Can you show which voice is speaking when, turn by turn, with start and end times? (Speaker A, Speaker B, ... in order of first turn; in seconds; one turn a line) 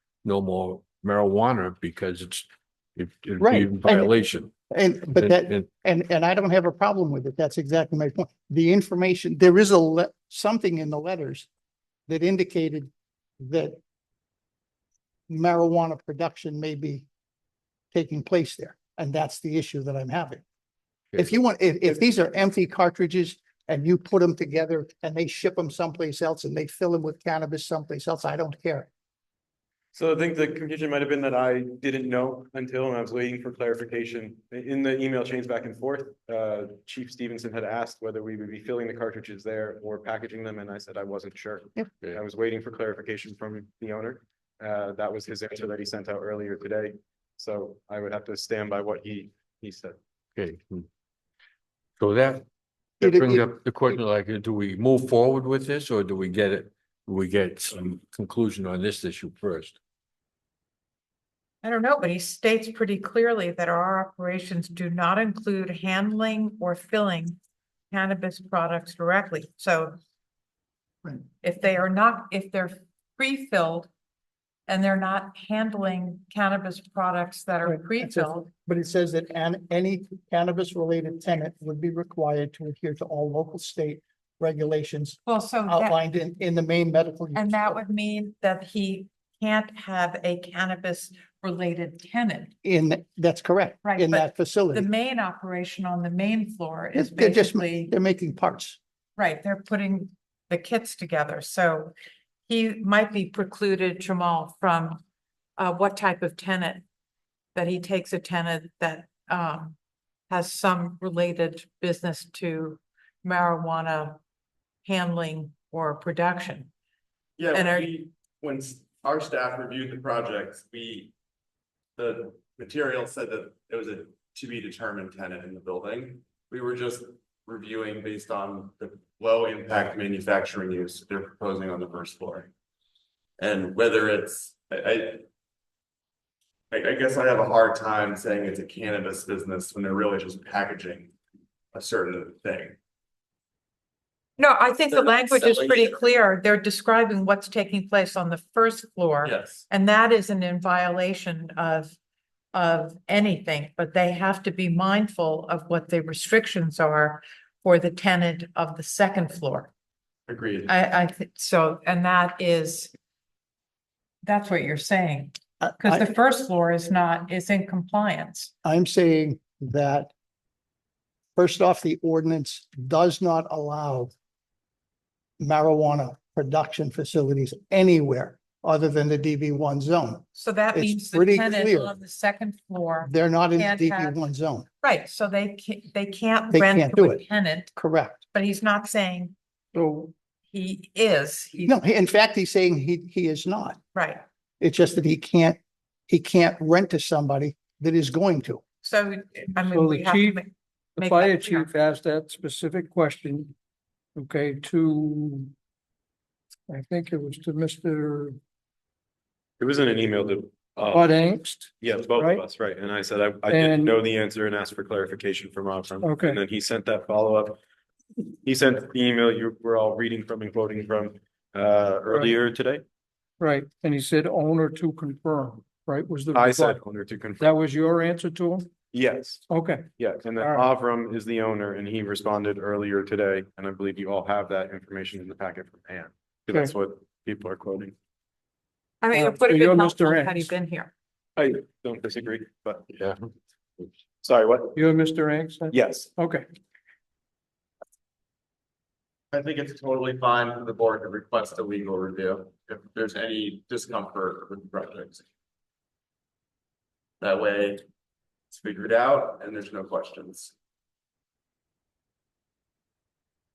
Speaker A: 0.2-4.5
Speaker B: 3.4-4.2
Speaker B: 4.7-11.5
Speaker A: 5.2-5.7
Speaker B: 12.1-13.8
Speaker B: 15.3-17.1
Speaker B: 17.9-20.4
Speaker B: 21.2-28.9
Speaker C: 29.9-50.0
Speaker A: 50.4-50.9
Speaker A: 52.0-52.5
Speaker A: 53.0-59.8
Speaker B: 53.0-53.5
Speaker D: 61.6-67.4
Speaker D: 67.9-70.0
Speaker D: 71.4-73.9
Speaker D: 74.7-78.5
Speaker B: 77.7-87.8
Speaker D: 85.3-86.0
Speaker D: 87.3-92.5
Speaker B: 92.6-94.9
Speaker D: 93.8-97.9
Speaker B: 96.9-98.8
Speaker D: 99.2-101.9
Speaker D: 102.5-105.0
Speaker D: 105.6-106.8
Speaker D: 107.5-109.8
Speaker D: 110.3-114.2
Speaker D: 114.9-116.7
Speaker E: 117.4-121.1
Speaker D: 117.5-118.0
Speaker E: 122.0-132.5
Speaker E: 133.4-135.2
Speaker E: 136.7-141.1
Speaker E: 141.7-142.8
Speaker D: 144.4-152.0
Speaker E: 145.1-145.9
Speaker E: 149.2-149.7
Speaker D: 152.5-159.7
Speaker E: 160.3-160.7
Speaker D: 160.7-162.9
Speaker D: 164.2-168.5
Speaker B: 165.6-166.1
Speaker B: 168.6-170.1
Speaker B: 171.4-174.1
Speaker B: 175.4-181.9
Speaker D: 180.3-184.2
Speaker B: 183.0-184.7
Speaker D: 184.8-187.7
Speaker B: 186.5-187.2
Speaker B: 187.8-188.2
Speaker D: 188.3-189.3
Speaker F: 189.7-190.1
Speaker D: 190.5-191.8
Speaker B: 191.7-193.8
Speaker D: 193.9-194.2
Speaker B: 194.6-195.6
Speaker B: 196.1-198.6
Speaker D: 198.8-201.7
Speaker F: 199.6-200.4
Speaker F: 201.0-203.5
Speaker F: 204.2-205.5
Speaker F: 206.7-208.4
Speaker C: 209.6-211.1
Speaker F: 210.9-212.4
Speaker C: 211.8-217.6
Speaker F: 213.5-214.0
Speaker F: 216.0-216.4
Speaker C: 218.4-222.8
Speaker F: 223.4-226.8
Speaker C: 226.3-227.5
Speaker F: 227.4-228.7
Speaker C: 228.9-229.4
Speaker F: 229.5-230.7
Speaker C: 230.0-237.9
Speaker D: 239.0-240.9
Speaker F: 239.1-240.5
Speaker C: 241.4-242.8
Speaker A: 242.9-243.2
Speaker C: 244.2-244.8
Speaker F: 244.8-246.5
Speaker C: 245.7-246.1
Speaker E: 249.3-255.2
Speaker E: 257.2-257.8
Speaker E: 258.5-260.5